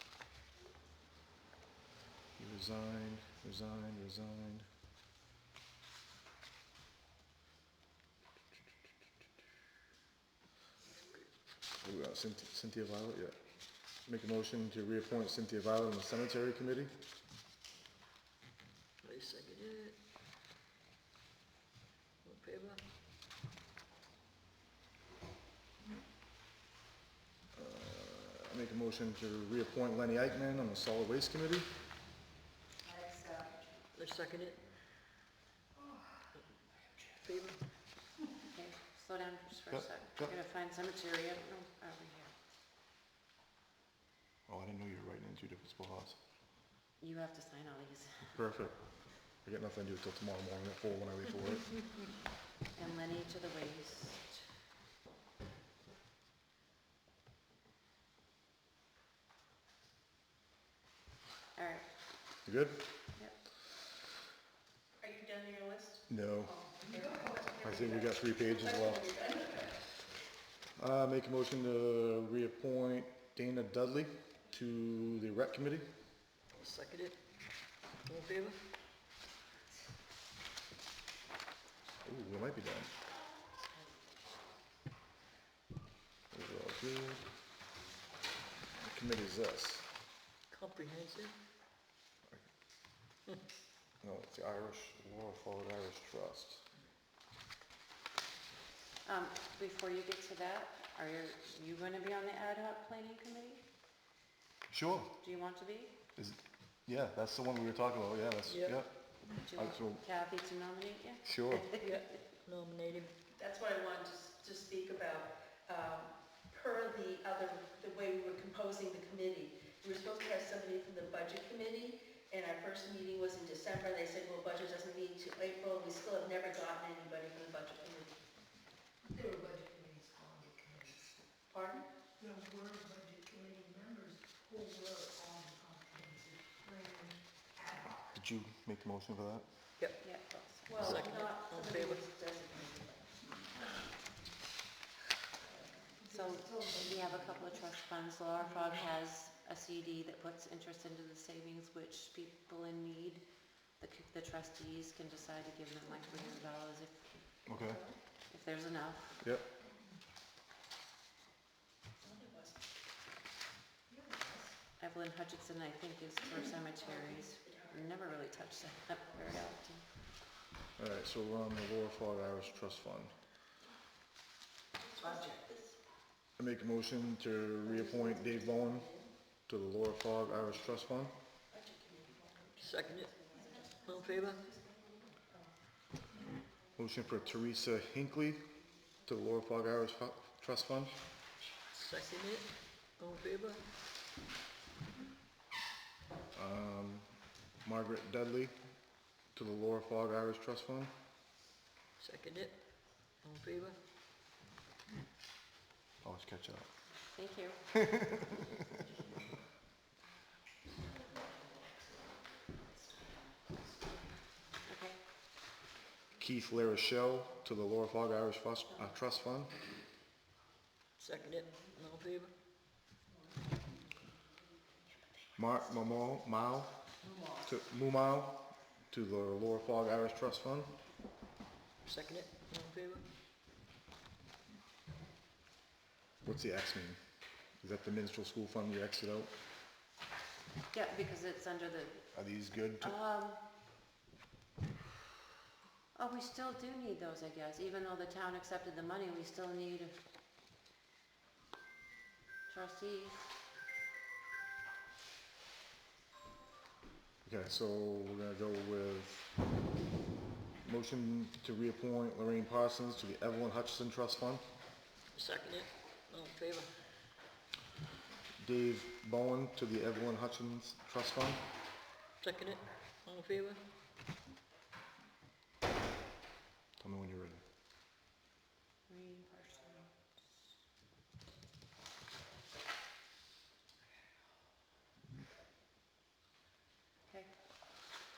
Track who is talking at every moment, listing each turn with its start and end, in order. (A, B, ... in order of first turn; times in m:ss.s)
0:02.4-0:04.6 A
0:11.8-0:13.4 A
0:14.0-0:16.9 A
0:19.0-0:20.0 B
0:22.2-0:22.8 B
0:27.5-0:31.7 A
0:33.9-0:34.6 B
0:37.2-0:37.6 B
0:38.5-0:42.3 C
0:39.7-0:40.3 A
0:44.5-0:46.2 A
0:47.0-0:48.4 C
0:48.3-0:52.0 A
0:52.7-0:54.4 C
1:01.5-1:01.8 C
1:02.4-1:02.8 A
1:05.0-1:09.7 D
1:06.1-1:06.6 A
1:07.6-1:09.1 A
1:10.8-1:15.8 A
1:16.6-1:17.2 B
1:18.0-1:18.6 B
1:22.0-1:22.9 A
1:26.3-1:27.2 A
1:28.7-1:29.9 A
1:30.5-1:31.3 B
1:34.0-1:36.6 A
1:39.0-1:43.6 C
1:44.7-1:45.1 A
1:45.2-1:45.9 C
1:46.2-1:48.9 A
1:48.4-1:48.9 B
1:49.4-1:51.9 C
1:49.5-1:50.0 A
1:51.2-1:51.7 A
1:51.8-1:53.1 B
1:53.3-2:08.2 D
2:09.1-2:11.0 E
2:11.5-2:11.8 D
2:12.2-2:17.2 E
2:18.1-2:19.4 A
2:20.0-2:20.7 C
2:20.7-2:23.2 D
2:20.8-2:22.0 B
2:26.1-2:33.2 C
2:33.8-2:37.1 C
2:37.5-2:37.8 A
2:38.3-2:39.2 C
2:42.0-2:42.6 D
2:44.8-2:49.8 C
2:50.8-2:53.2 A
2:54.8-2:55.8 D
2:56.4-3:01.1 A
3:01.5-3:03.8 D
3:02.6-3:03.2 B
3:03.8-3:04.4 B
3:06.8-3:08.4 A
3:09.0-3:11.0 A
3:11.8-3:13.6 B
3:16.3-3:18.5 A
3:19.3-3:20.9 A
3:22.0-3:22.5 B
3:23.2-3:23.8 B
3:26.0-3:26.7 A
3:27.0-3:27.7 C
3:27.7-3:28.3 A
3:34.6-3:35.0 C
3:36.2-3:39.6 A
3:41.0-3:42.3 B
3:45.4-3:50.7 A
3:51.8-3:53.0 B
3:56.2-3:57.0 A
3:57.6-3:59.3 A
4:00.7-4:02.1 C
4:02.1-4:03.0 A
4:02.8-4:03.4 C
4:05.9-4:10.0 C
4:12.5-4:13.2 C
4:17.2-4:19.3 A
4:20.6-4:24.4 A
4:25.1-4:26.7 B
4:28.4-4:31.4 A
4:32.2-4:33.6 B
4:36.8-4:37.4 A
4:38.9-4:39.9 C